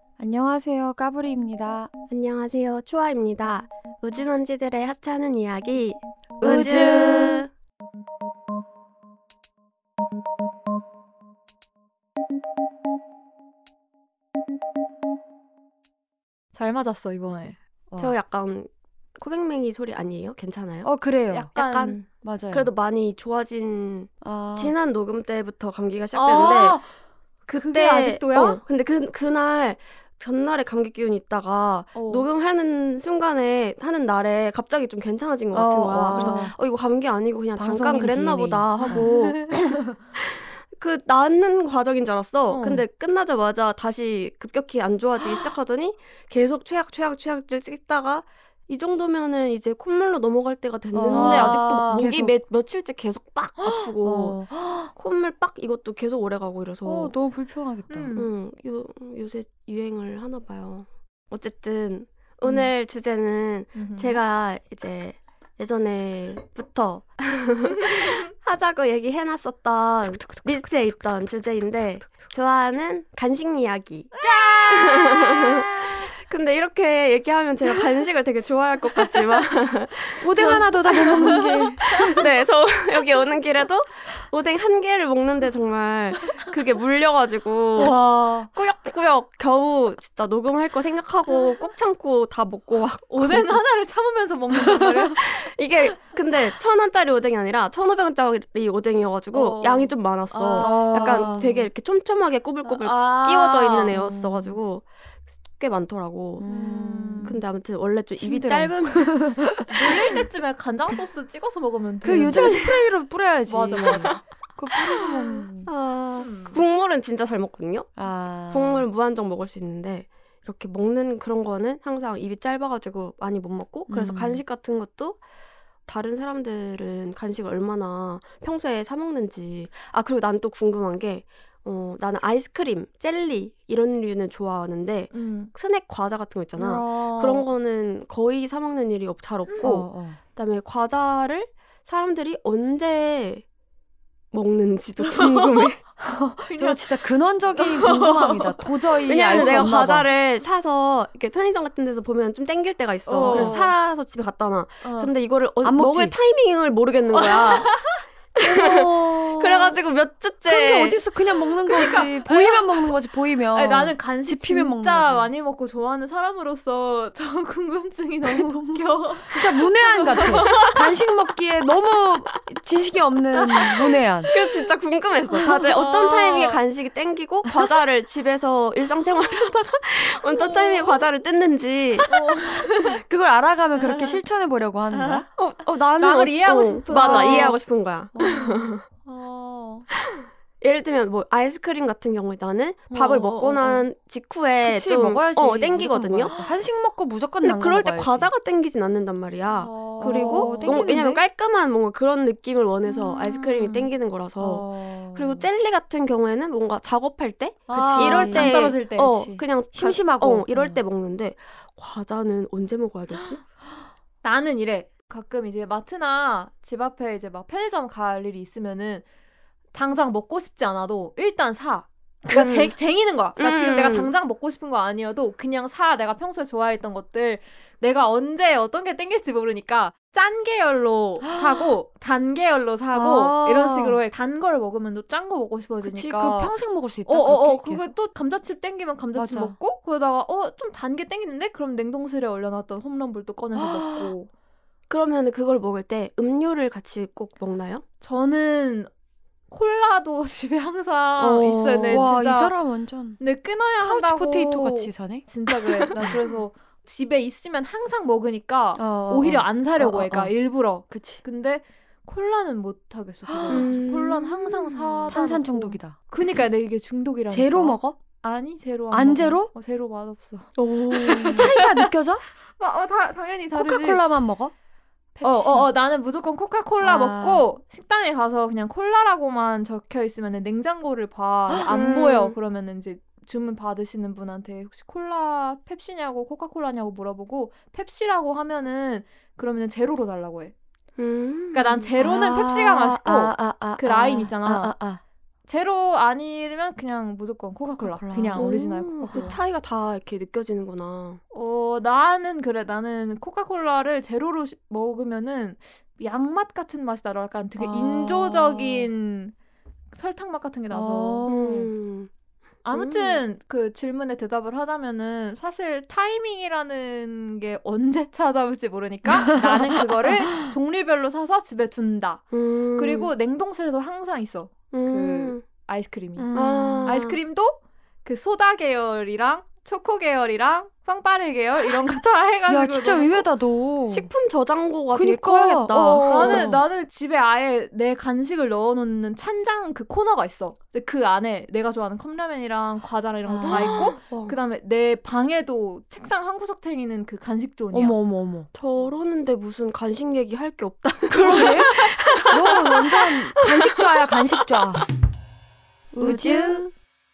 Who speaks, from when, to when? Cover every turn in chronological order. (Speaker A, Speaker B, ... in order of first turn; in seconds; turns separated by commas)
Speaker A: 0.2-1.9, Speaker B: 2.1-7.5, Speaker A: 6.4-7.5, Speaker C: 16.5-17.6, Speaker B: 18.0-20.9, Speaker A: 20.8-21.5, Speaker C: 21.3-22.0, Speaker B: 21.5-26.8, Speaker A: 22.2-22.7, Speaker A: 24.2-24.7, Speaker C: 26.1-26.9, Speaker C: 27.5-28.6, Speaker B: 27.5-39.6, Speaker C: 31.9-32.3, Speaker A: 35.5-36.5, Speaker C: 36.1-36.5, Speaker A: 37.5-39.8, Speaker C: 38.8-39.8, Speaker B: 40.1-57.1, Speaker C: 42.5-42.8, Speaker A: 50.9-52.3, Speaker C: 51.1-52.0, Speaker C: 53.6-53.9, Speaker A: 54.0-54.9, Speaker A: 56.8-58.2, Speaker C: 57.9-58.3, Speaker B: 58.1-74.1, Speaker C: 63.7-64.2, Speaker C: 74.1-75.1, Speaker A: 74.2-75.9, Speaker B: 74.7-88.0, Speaker A: 80.2-82.3, Speaker C: 80.4-82.0, Speaker C: 87.8-88.5, Speaker B: 88.5-93.6, Speaker C: 93.1-95.3, Speaker B: 94.6-104.8, Speaker C: 99.3-101.5, Speaker A: 100.6-101.7, Speaker C: 102.6-104.0, Speaker A: 103.9-104.6, Speaker B: 105.5-106.5, Speaker A: 106.4-107.4, Speaker C: 106.4-107.4, Speaker B: 107.2-110.0, Speaker A: 108.2-110.2, Speaker C: 109.7-112.7, Speaker A: 112.0-115.7, Speaker B: 112.3-112.8, Speaker C: 113.5-114.2, Speaker B: 113.8-114.2, Speaker B: 114.7-117.9, Speaker C: 116.2-116.6, Speaker A: 118.0-118.8, Speaker B: 118.5-125.2, Speaker A: 123.9-124.4, Speaker B: 125.9-143.4, Speaker C: 135.1-135.5, Speaker C: 136.6-137.4, Speaker C: 139.5-139.8, Speaker A: 139.6-140.2, Speaker B: 144.3-145.8, Speaker C: 145.0-145.7, Speaker A: 146.0-150.1, Speaker C: 146.4-146.9, Speaker C: 147.5-148.7, Speaker B: 149.0-157.7, Speaker C: 149.3-149.7, Speaker C: 153.1-153.7, Speaker A: 153.2-153.7, Speaker C: 154.8-155.1, Speaker A: 155.6-156.2, Speaker C: 157.1-158.0, Speaker A: 158.4-159.8, Speaker B: 158.4-161.0, Speaker A: 160.5-165.3, Speaker C: 161.7-162.9, Speaker C: 163.5-170.8, Speaker A: 168.2-174.3, Speaker B: 170.4-170.7, Speaker C: 174.2-174.7, Speaker B: 174.3-182.2, Speaker C: 175.4-176.6, Speaker C: 180.3-180.9, Speaker C: 182.1-183.0, Speaker A: 182.6-185.2, Speaker C: 183.8-184.2, Speaker C: 184.9-185.2, Speaker B: 185.3-188.8, Speaker C: 186.0-187.6, Speaker A: 186.9-187.6, Speaker C: 188.2-189.9, Speaker B: 190.1-196.3, Speaker C: 192.9-193.8, Speaker A: 194.6-198.3, Speaker C: 196.2-196.5, Speaker B: 197.4-213.4, Speaker C: 199.5-200.9, Speaker A: 200.0-201.2, Speaker C: 202.9-203.9, Speaker A: 204.4-205.5, Speaker C: 207.7-209.3, Speaker A: 207.7-208.6, Speaker A: 209.2-210.8, Speaker C: 214.2-219.0, Speaker C: 219.7-236.5, Speaker B: 222.3-222.7, Speaker B: 223.3-224.1, Speaker A: 231.2-231.7, Speaker A: 232.9-234.0, Speaker A: 235.8-237.9, Speaker C: 237.1-244.3, Speaker A: 239.1-239.5, Speaker A: 243.6-244.1, Speaker B: 244.9-247.8, Speaker C: 248.0-248.9, Speaker C: 249.5-252.5, Speaker A: 251.2-253.2, Speaker B: 251.7-252.1, Speaker C: 253.2-271.9, Speaker A: 253.8-255.3, Speaker A: 255.8-256.2, Speaker A: 258.8-260.3, Speaker A: 260.9-261.2, Speaker A: 263.3-263.7, Speaker B: 263.5-265.1, Speaker A: 265.1-266.0, Speaker A: 267.3-268.0, Speaker A: 268.9-269.5, Speaker B: 270.6-271.5, Speaker A: 270.9-272.2, Speaker C: 272.6-274.0, Speaker A: 273.5-274.5, Speaker A: 275.2-275.7, Speaker C: 275.2-290.5, Speaker A: 276.8-277.4, Speaker B: 281.7-282.4, Speaker B: 291.0-291.9, Speaker C: 291.5-294.7, Speaker A: 292.0-295.0, Speaker C: 295.5-299.4, Speaker A: 297.6-299.3, Speaker B: 298.4-301.2, Speaker C: 301.3-309.3, Speaker A: 307.6-308.9, Speaker C: 309.9-311.2, Speaker A: 310.7-311.7, Speaker B: 311.2-312.1, Speaker C: 312.6-322.2, Speaker B: 312.7-313.2, Speaker B: 322.3-323.1, Speaker C: 322.8-333.2, Speaker B: 324.7-325.4, Speaker A: 326.2-327.0, Speaker B: 326.3-327.2, Speaker A: 332.5-334.1, Speaker B: 333.9-336.5, Speaker A: 334.9-336.6, Speaker C: 336.0-347.9, Speaker A: 343.3-344.0, Speaker B: 343.4-344.3, Speaker A: 347.7-348.5, Speaker B: 348.5-354.2, Speaker A: 351.1-354.8, Speaker C: 351.2-351.7, Speaker A: 355.9-356.7, Speaker B: 356.0-356.7